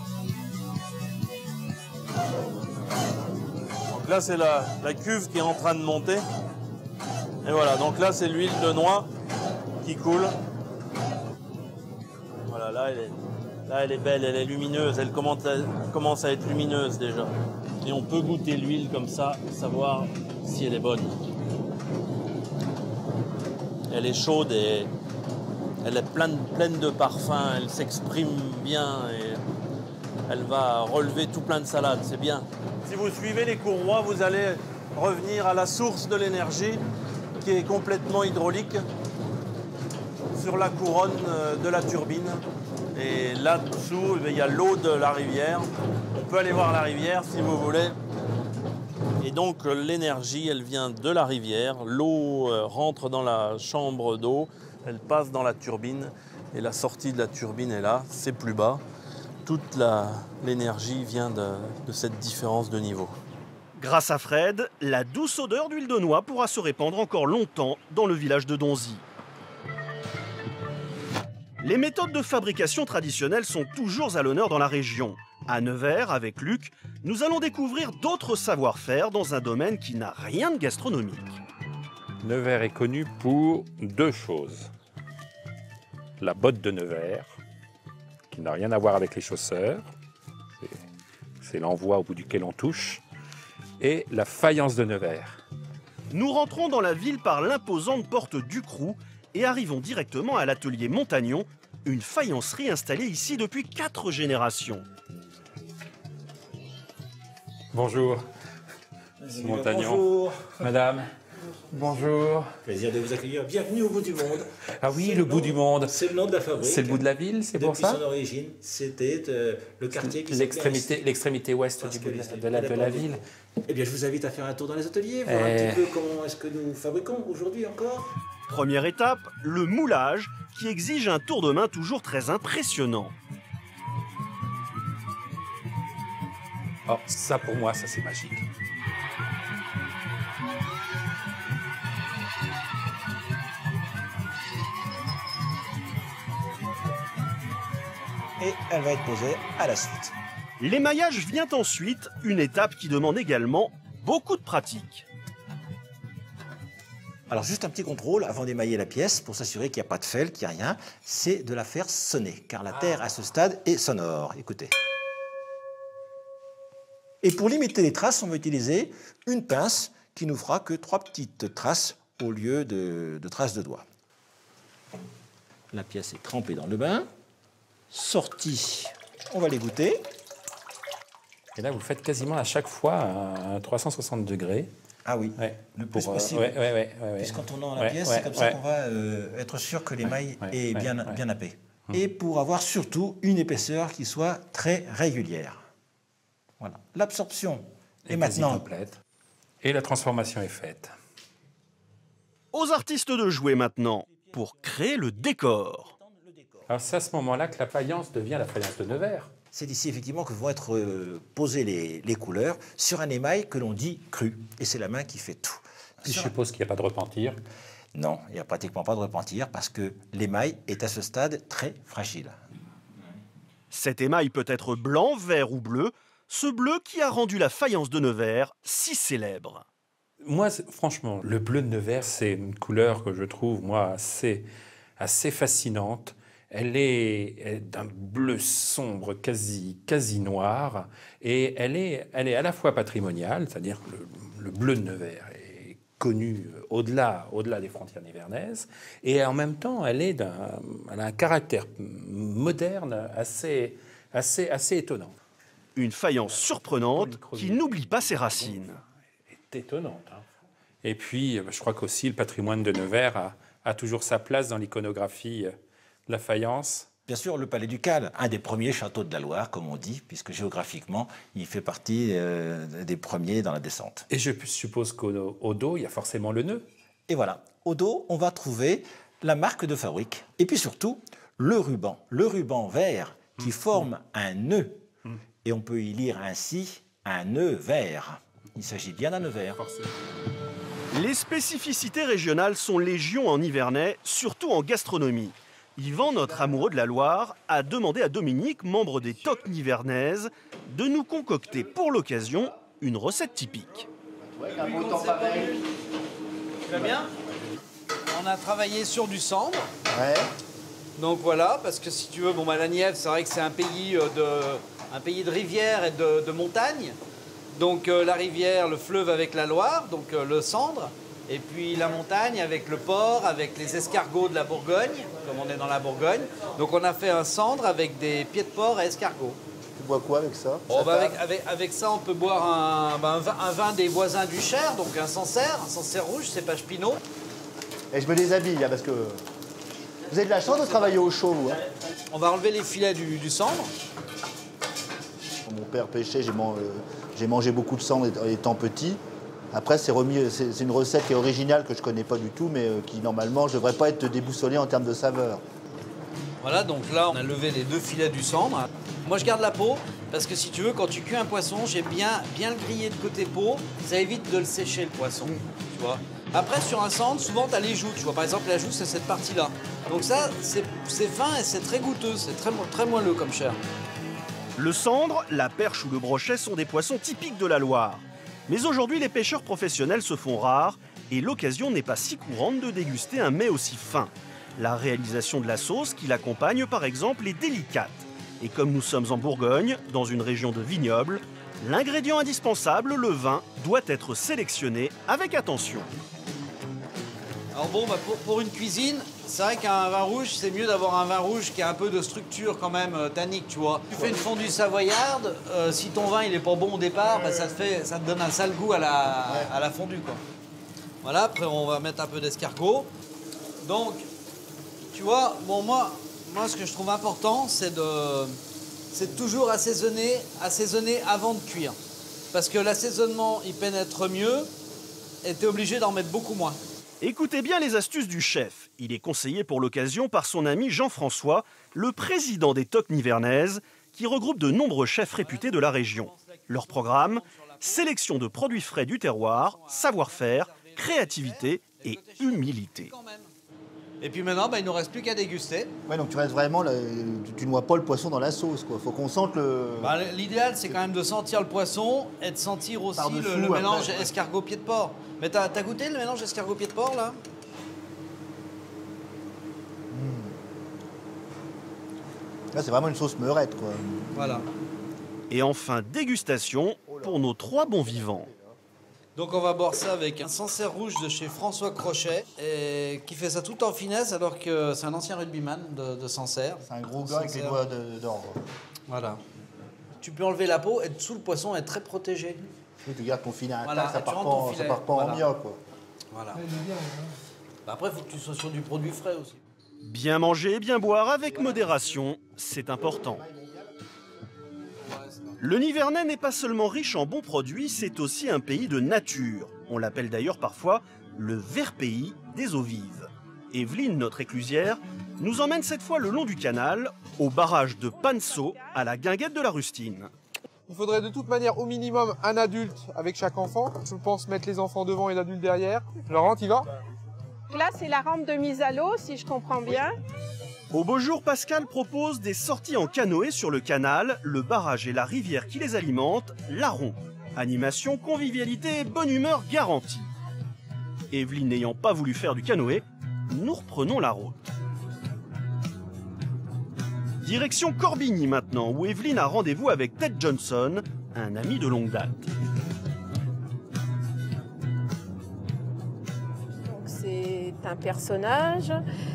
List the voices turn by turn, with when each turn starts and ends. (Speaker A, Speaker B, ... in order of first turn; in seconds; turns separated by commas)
Speaker A: 3.9-6.2, Speaker A: 7.4-9.1, Speaker A: 9.8-10.3, Speaker A: 12.5-13.2, Speaker A: 13.7-21.2, Speaker A: 23.9-24.9, Speaker A: 25.8-29.4, Speaker A: 30.3-36.8, Speaker A: 37.4-38.9, Speaker A: 40.4-42.4, Speaker A: 43.0-48.0, Speaker A: 49.2-58.8, Speaker A: 59.5-63.2, Speaker B: 63.8-69.0, Speaker B: 71.6-81.4, Speaker C: 82.2-84.7, Speaker C: 86.2-87.3, Speaker C: 88.3-89.9, Speaker C: 91.4-93.0, Speaker C: 93.8-95.4, Speaker B: 96.1-104.8, Speaker C: 107.7-108.2, Speaker D: 109.2-110.7, Speaker C: 109.3-111.1, Speaker C: 111.7-112.5, Speaker D: 112.7-121.1, Speaker C: 114.8-116.0, Speaker C: 116.6-118.0, Speaker C: 119.9-123.2, Speaker D: 121.8-128.1, Speaker C: 125.2-126.0, Speaker B: 128.5-133.1, Speaker C: 136.9-138.4, Speaker D: 148.4-150.2, Speaker B: 150.6-155.1, Speaker D: 157.3-164.7, Speaker D: 167.2-173.9, Speaker D: 175.7-177.1, Speaker D: 177.9-180.0, Speaker C: 181.6-184.7, Speaker D: 185.1-186.6, Speaker C: 185.4-188.6, Speaker D: 187.2-195.6, Speaker C: 190.1-191.2, Speaker D: 196.6-198.7, Speaker C: 198.1-199.0, Speaker C: 199.6-200.9, Speaker B: 202.5-205.9, Speaker D: 205.9-206.7, Speaker C: 206.7-209.3, Speaker D: 209.5-216.3, Speaker C: 216.1-217.4, Speaker D: 217.9-222.4, Speaker B: 223.7-229.7, Speaker C: 230.2-234.5, Speaker C: 235.0-255.2, Speaker B: 255.8-258.8, Speaker C: 256.9-258.7, Speaker C: 259.5-260.2, Speaker C: 260.8-265.6, Speaker C: 266.1-266.9, Speaker D: 267.1-274.1, Speaker C: 274.1-276.7, Speaker D: 277.1-284.8, Speaker C: 283.5-283.8, Speaker D: 285.4-289.6, Speaker B: 290.9-303.9, Speaker E: 304.2-305.6, Speaker F: 304.5-305.6, Speaker F: 306.7-307.1, Speaker F: 308.1-309.7, Speaker E: 309.9-310.3, Speaker F: 311.0-317.0, Speaker F: 317.5-329.4, Speaker E: 329.8-331.2, Speaker F: 330.7-337.0, Speaker E: 337.9-339.2, Speaker E: 340.1-341.6, Speaker F: 342.1-343.7, Speaker E: 345.5-349.0, Speaker E: 349.5-355.4, Speaker F: 356.4-373.6, Speaker B: 374.6-395.9, Speaker F: 397.5-410.2, Speaker E: 407.2-407.5, Speaker F: 411.0-412.9, Speaker F: 413.6-414.1, Speaker F: 414.9-418.4, Speaker F: 418.9-421.8, Speaker F: 422.3-424.5, Speaker F: 425.2-426.6, Speaker B: 427.0-442.9, Speaker F: 435.1-437.9, Speaker F: 439.6-443.3, Speaker F: 444.0-445.7, Speaker E: 445.9-450.0, Speaker F: 449.8-457.2, Speaker E: 453.0-454.1, Speaker E: 459.9-460.4, Speaker E: 462.5-464.1, Speaker F: 464.1-464.5, Speaker B: 465.3-468.3, Speaker E: 466.9-468.6, Speaker F: 469.2-477.6, Speaker E: 476.6-478.4, Speaker F: 478.9-479.2, Speaker F: 480.0-482.5, Speaker E: 482.8-485.6, Speaker F: 483.6-485.2, Speaker F: 486.1-486.9, Speaker F: 487.6-489.4, Speaker B: 489.8-493.2, Speaker E: 493.2-493.6, Speaker F: 494.9-495.4, Speaker B: 495.4-510.1, Speaker G: 508.0-508.8, Speaker H: 510.7-516.7, Speaker G: 517.5-520.0, Speaker B: 520.7-530.1, Speaker B: 531.1-534.4, Speaker B: 537.2-542.3, Speaker G: 546.6-548.8